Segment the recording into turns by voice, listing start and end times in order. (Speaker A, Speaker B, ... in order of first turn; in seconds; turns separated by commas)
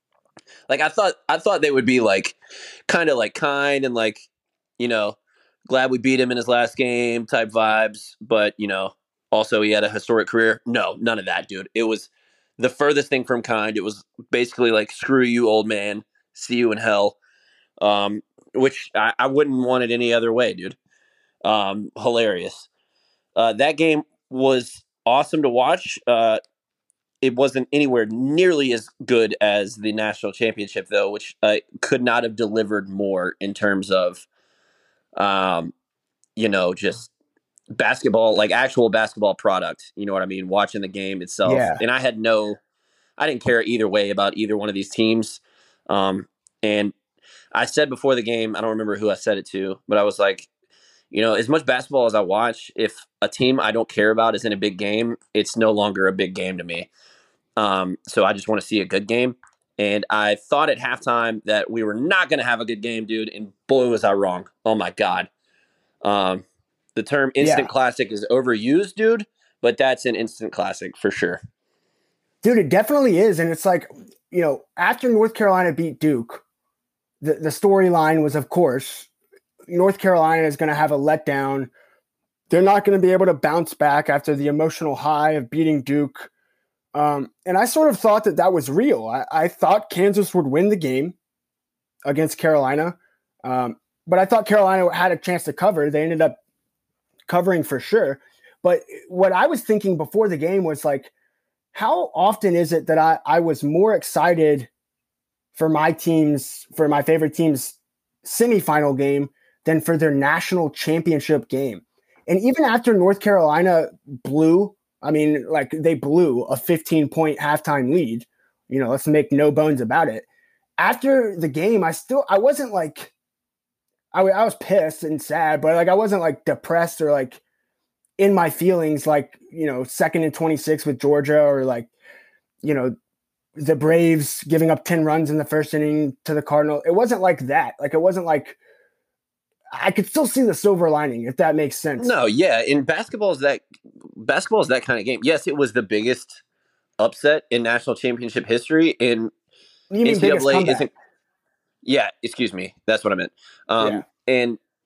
Speaker A: 0.7-2.4, Speaker A: 2.9-4.3, Speaker A: 4.8-17.2, Speaker A: 17.8-20.8, Speaker A: 21.4-22.7, Speaker A: 23.4-26.4, Speaker A: 27.2-34.2, Speaker A: 35.1-35.7, Speaker A: 36.4-37.1, Speaker A: 37.7-42.6, Speaker B: 41.4-41.8, Speaker A: 43.2-46.9, Speaker A: 47.5-50.5, Speaker A: 51.1-56.9, Speaker A: 57.6-65.3, Speaker A: 66.0-71.4, Speaker B: 67.4-67.7, Speaker B: 72.4-76.4, Speaker B: 77.2-79.1, Speaker B: 79.7-81.7, Speaker B: 82.5-86.3, Speaker B: 86.9-91.1, Speaker B: 92.0-96.4, Speaker B: 97.3-101.1, Speaker B: 101.7-104.7, Speaker B: 105.5-120.2, Speaker B: 120.8-123.1, Speaker B: 124.1-127.4, Speaker B: 128.2-131.9, Speaker B: 132.6-132.9, Speaker B: 133.6-138.6, Speaker B: 139.7-142.1, Speaker A: 142.0-146.4, Speaker A: 147.0-149.3, Speaker B: 149.9-150.9, Speaker A: 150.0-150.9, Speaker A: 151.8-154.6, Speaker B: 153.8-154.0